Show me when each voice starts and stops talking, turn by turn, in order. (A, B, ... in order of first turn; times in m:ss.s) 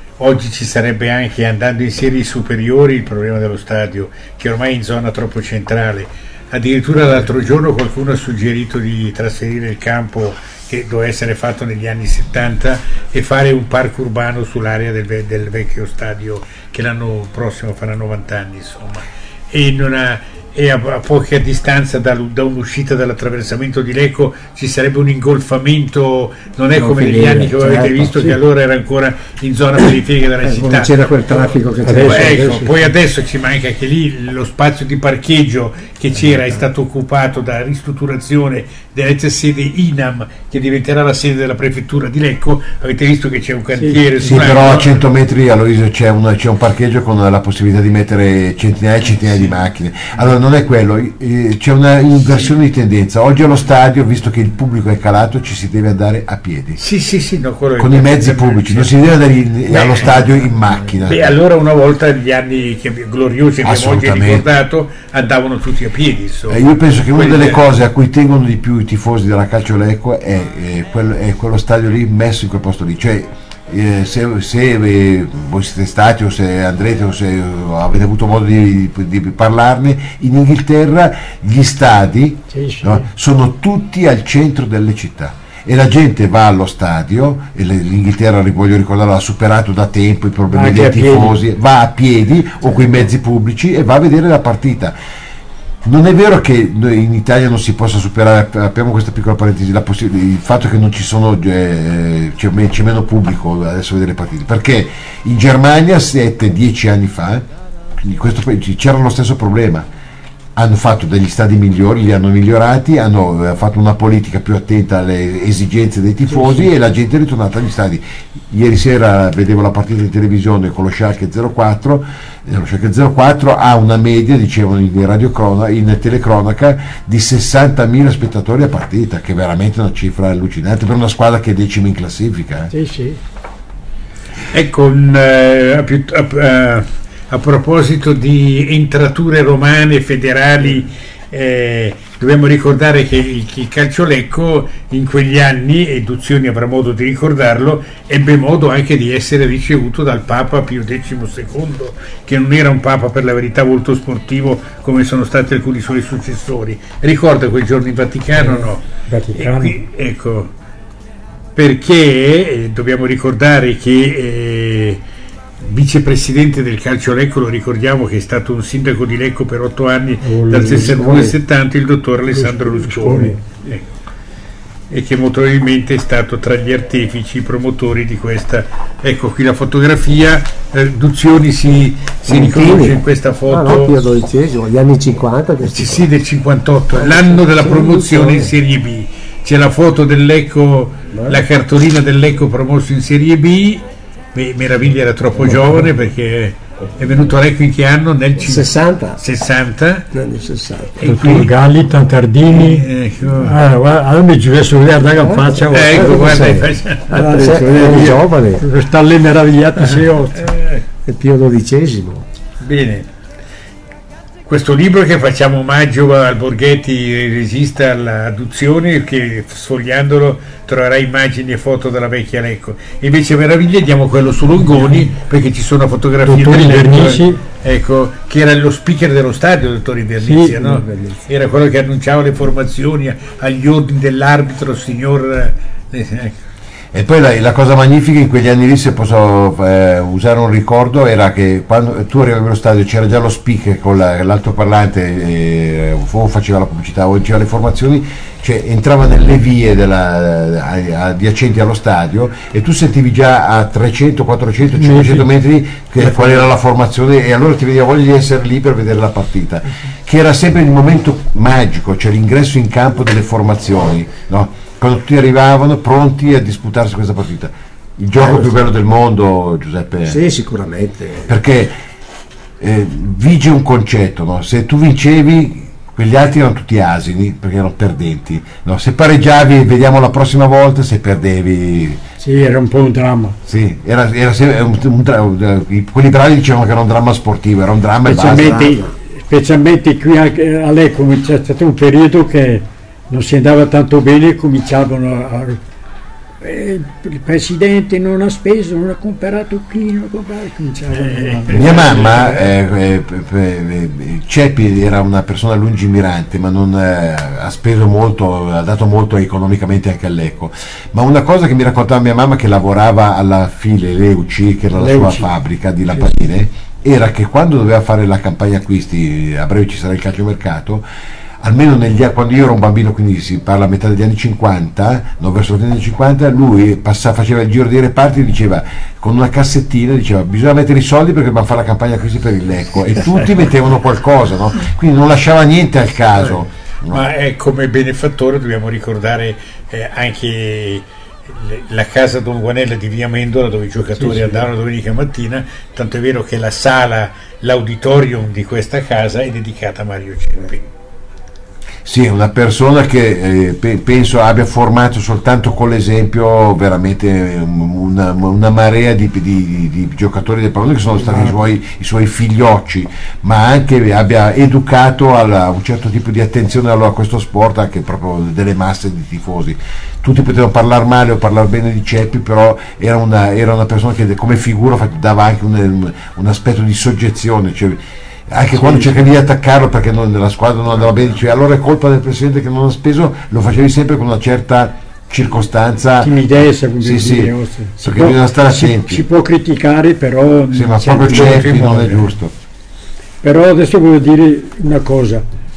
0:00.2-0:31.5 A
0:26.8-0:28.2 B
0:30.4-0:32.6 B
0:31.8-0:32.8 C
0:32.1-0:44.9 A
0:36.3-0:36.6 B
0:44.2-0:56.8 D
0:56.8-0:59.0 A
0:57.8-1:01.3 D
0:59.7-1:00.4 A
1:01.0-1:07.7 A
1:03.6-1:04.5 D
1:06.5-1:35.0 D
1:22.5-1:23.1 C
1:30.5-1:31.4 C
1:35.8-1:47.4 D
1:48.0-1:49.9 D
1:50.6-2:12.7 D
1:56.3-1:56.7 C
2:12.7-2:13.2 C
2:14.5-2:38.8 A
2:38.4-2:39.8 C
2:39.4-2:40.5 A
2:41.6-2:45.0 A
2:45.6-2:53.9 A
2:50.2-2:51.3 C
2:50.7-2:51.3 B
2:52.3-2:53.4 C
2:54.9-3:03.9 A
3:02.3-3:06.1 B
3:05.6-3:13.8 A
3:06.9-3:08.5 B
3:11.1-3:11.4 B
3:14.4-3:20.1 A
3:15.4-3:15.7 B
3:18.4-3:19.2 B
3:20.1-3:21.0 B
3:21.0-3:21.5 A
3:21.0-3:22.9 C
3:22.5-3:23.6 A
3:23.4-3:26.6 C
3:25.2-3:28.6 B
3:25.7-3:27.1 A
3:27.1-3:30.5 C
3:30.4-3:30.8 A
3:31.1-3:32.3 B
3:32.6-3:33.1 A
3:34.5-3:56.3 A
3:46.2-3:47.4 C
3:50.2-3:50.6 C
3:50.4-3:51.2 B
3:56.9-4:30.2 D
4:14.7-4:15.3 C
4:16.0-4:16.5 B
4:28.2-4:28.6 B
4:30.1-4:31.4 B
4:31.3-4:31.8 D
4:32.6-4:42.0 D
4:42.2-4:43.4 C
4:43.5-4:48.6 D
4:48.0-4:55.6 C
4:48.2-4:48.9 B
4:56.4-5:02.2 C
5:01.1-5:02.4 A
5:01.5-5:20.8 D
5:14.8-5:15.3 C
5:21.4-5:37.1 D
5:36.9-5:50.6 A
5:44.0-5:44.4 C
5:51.8-6:29.1 D
6:01.0-6:01.4 C
6:18.6-6:19.0 C
6:26.0-6:32.1 C
6:30.5-6:32.3 D
6:31.1-6:31.9 A
6:33.2-6:35.2 C